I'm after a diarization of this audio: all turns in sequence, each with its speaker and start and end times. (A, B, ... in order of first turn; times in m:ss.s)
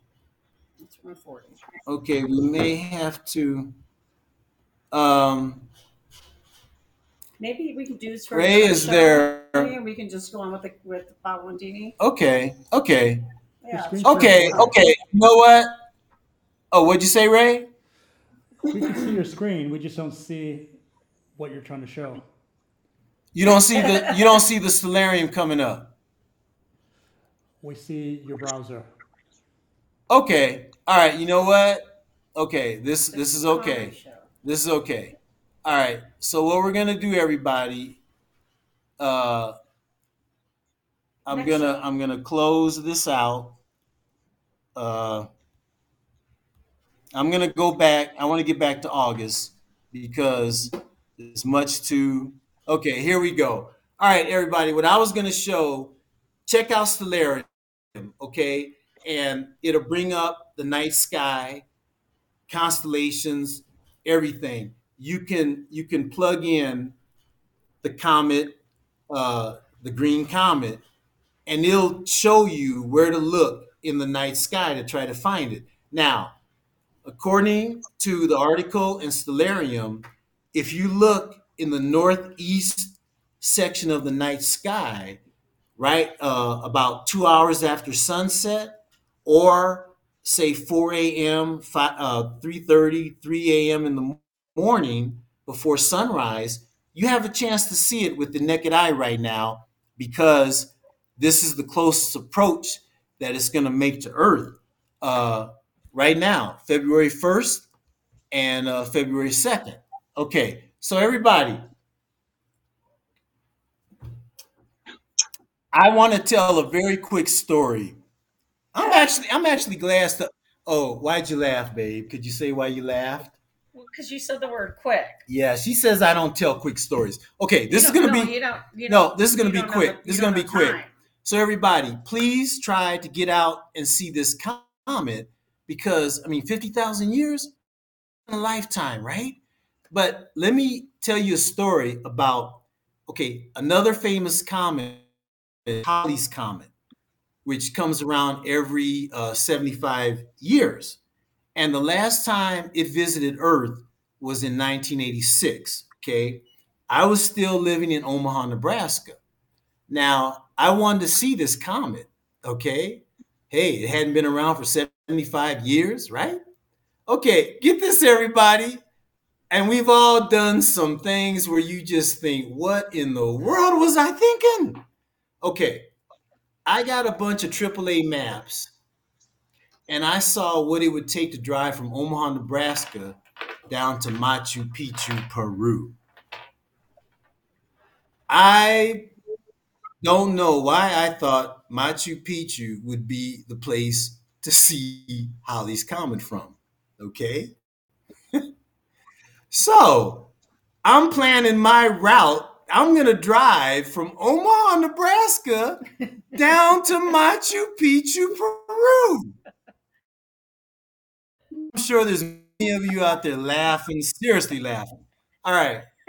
0:00.8-0:01.6 A
0:01.9-0:03.7 B
0:04.9-0:05.7 B
0:07.4-0:12.0 A
0:08.3-0:09.7 B
0:12.0-0:13.2 B
0:13.6-0:14.7 A
0:13.7-0:14.8 C
0:14.0-0:15.7 B
0:16.7-0:17.7 B
0:18.6-0:20.8 C
0:21.4-0:22.2 C
0:23.3-0:25.9 B
0:23.9-0:24.2 A
0:27.6-0:28.9 C
0:30.1-0:38.0 B
0:33.1-0:34.3 A
0:39.0-0:39.6 B
0:41.2-0:43.6 B
0:41.3-0:41.8 A
0:44.8-0:45.3 B
0:47.1-0:56.0 B
0:56.5-1:01.6 B
1:02.5-1:07.0 B
1:07.8-1:10.8 B
1:11.5-1:16.4 B
1:17.0-1:25.2 B
1:25.8-1:47.7 B
1:48.3-1:51.7 B
1:55.7-1:58.0 B
1:58.7-2:03.4 B
1:58.8-1:59.1 A
2:03.7-2:05.2 A
2:05.3-2:08.3 B
2:07.7-2:10.9 A
2:08.9-2:17.5 B
2:18.3-2:19.4 B
2:19.9-2:25.1 B
2:25.7-2:26.7 B
2:27.4-2:31.0 B
2:31.6-2:39.2 B
2:39.9-2:46.4 B
2:47.1-2:48.8 B
2:49.5-2:54.8 B
2:55.4-2:55.9 B
2:56.7-2:58.7 B
2:59.9-3:03.2 B
3:03.7-3:06.0 B
3:08.3-3:09.1 B
3:10.0-3:17.6 B
3:19.5-3:20.3 B
3:20.8-3:29.4 B
3:31.6-3:35.9 B